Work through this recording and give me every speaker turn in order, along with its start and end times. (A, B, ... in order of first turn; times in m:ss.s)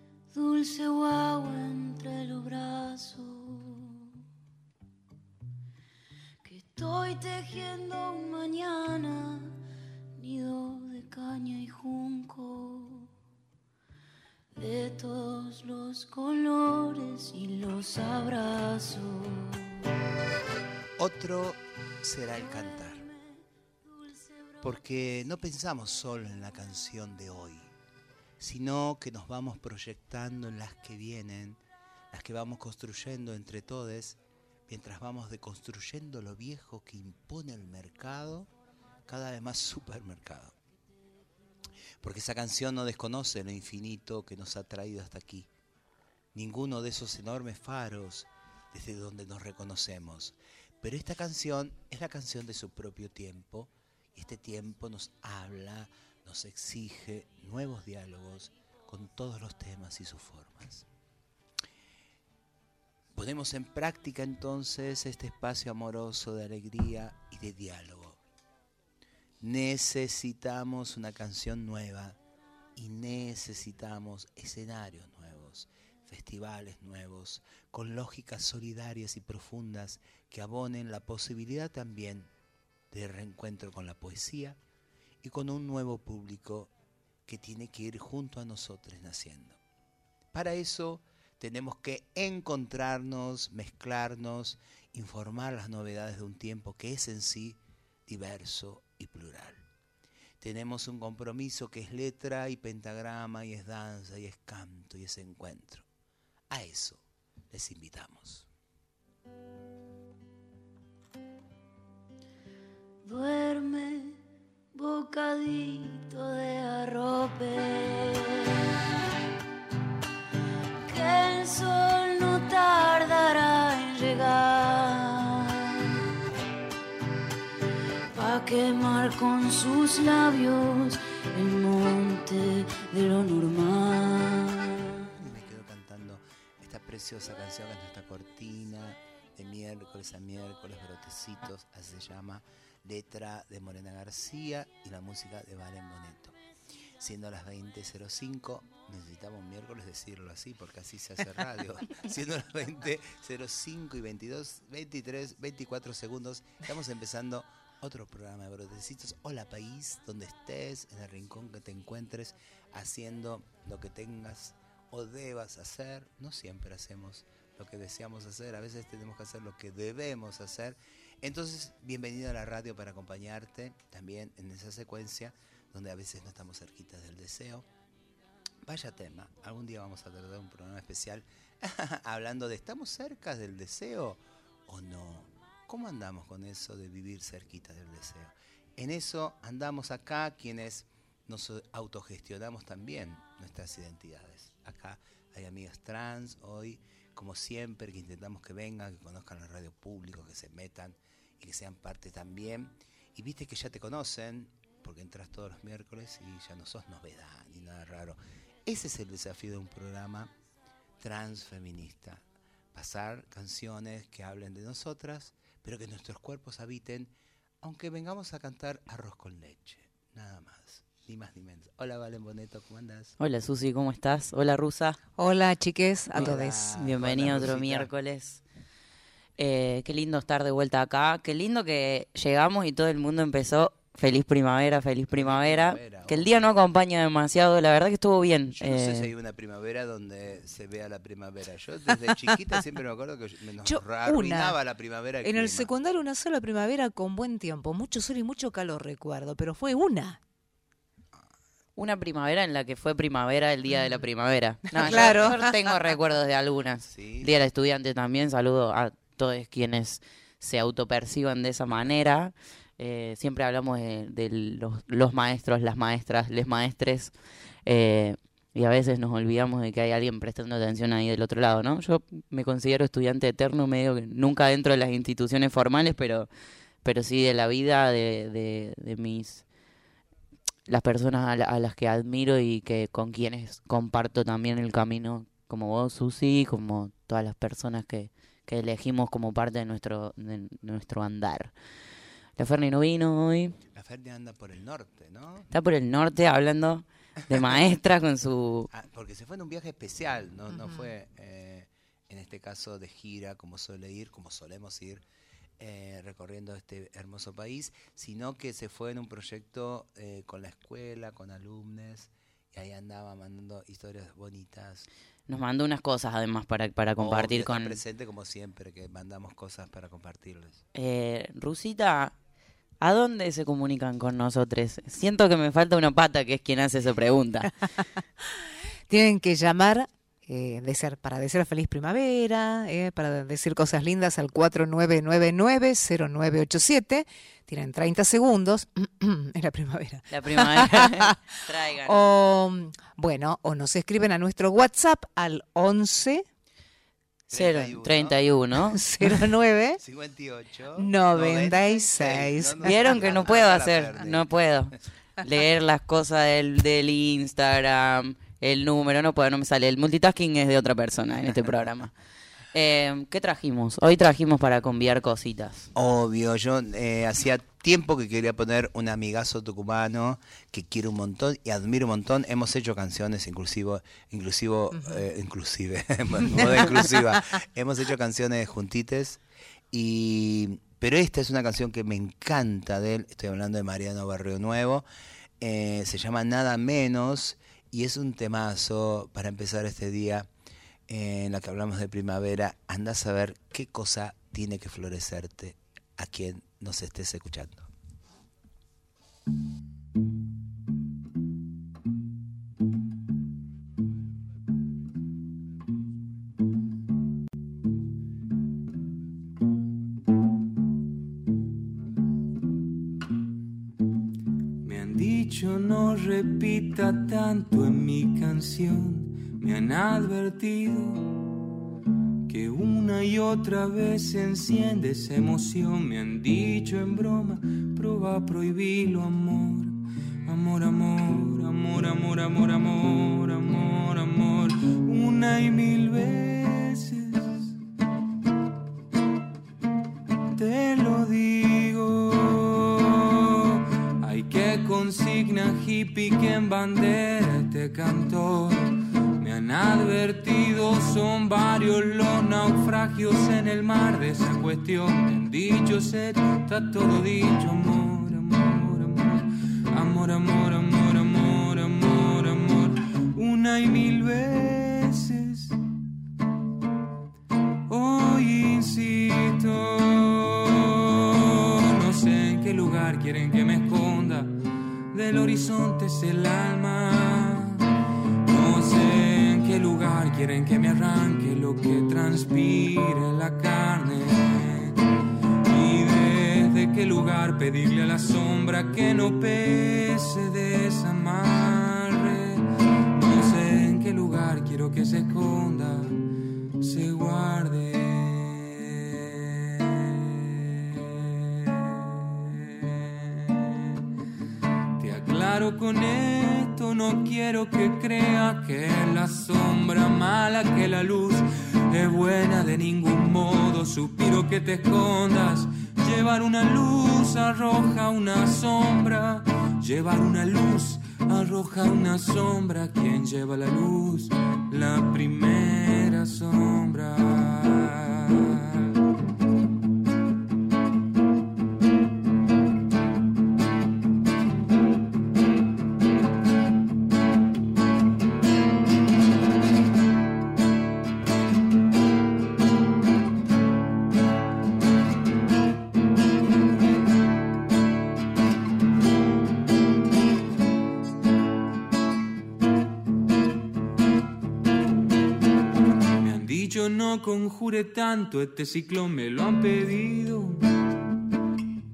0:00.3-0:04.1 A
0:06.4-0:09.6 A
0:10.2-0:13.1 A
0:14.5-0:19.8 A
0:21.0-0:23.0 B
0:22.4-0:23.1 A
0:23.8-0:25.1 A
0:24.6-0:27.7 B
0:28.4-0:31.6 B
0:32.1-0:38.5 B
0:39.1-0:40.5 B
0:42.0-0:45.5 B
0:46.3-1:00.9 B
1:03.1-1:08.2 B
1:09.4-1:12.2 B
1:12.8-1:22.3 B
1:22.9-1:24.6 B
1:25.2-1:26.7 B
1:27.2-1:29.6 B
1:30.3-1:39.6 B
1:40.4-1:45.8 B
1:46.5-1:48.5 B
1:53.0-1:54.2 A
1:54.7-1:58.6 A
2:00.9-2:05.9 A
2:08.1-2:15.0 A
2:15.2-2:26.4 B
2:27.0-2:57.6 B
2:58.6-3:30.3 B
3:31.0-3:32.2 B
3:32.7-3:37.1 B
3:37.6-3:43.1 B
3:43.2-3:45.0 C
3:45.2-3:46.8 D
3:46.1-3:47.9 B
3:46.2-3:48.4 C
3:49.4-3:59.1 C
3:55.1-3:56.5 B
3:58.6-4:05.7 B
4:03.6-4:04.6 D
4:05.2-4:10.2 D
4:11.8-4:27.1 C
4:14.8-4:15.4 D
4:16.8-4:17.3 B
4:27.6-4:36.3 C
4:36.8-4:39.4 C
4:40.7-4:51.5 C
4:52.4-4:53.5 C
4:53.7-4:55.5 B
4:55.5-4:58.7 C
4:58.7-5:05.0 B
5:05.6-5:14.9 B
5:15.3-5:17.8 C
5:17.0-5:20.6 B
5:20.7-5:22.1 C
5:22.8-5:27.5 C
5:28.9-5:41.1 D
5:40.1-5:42.0 C
5:41.8-5:46.2 D
5:47.3-5:48.2 B
5:47.3-5:48.8 C
5:48.8-5:49.8 D
5:49.8-5:54.3 B
5:50.8-5:52.7 D
5:52.6-6:01.9 C
6:02.5-6:05.7 C
6:05.7-6:19.2 B
6:19.7-6:24.8 B
6:25.4-6:30.3 B
6:30.9-6:37.7 B
6:54.6-7:01.1 E
7:02.3-7:17.5 E
7:20.3-7:45.6 E
7:47.7-7:54.3 E
7:54.9-7:57.6 E
7:58.2-8:04.8 E
8:05.5-8:16.0 E
8:16.6-8:23.8 E
8:24.8-8:48.7 E
9:16.0-9:20.4 E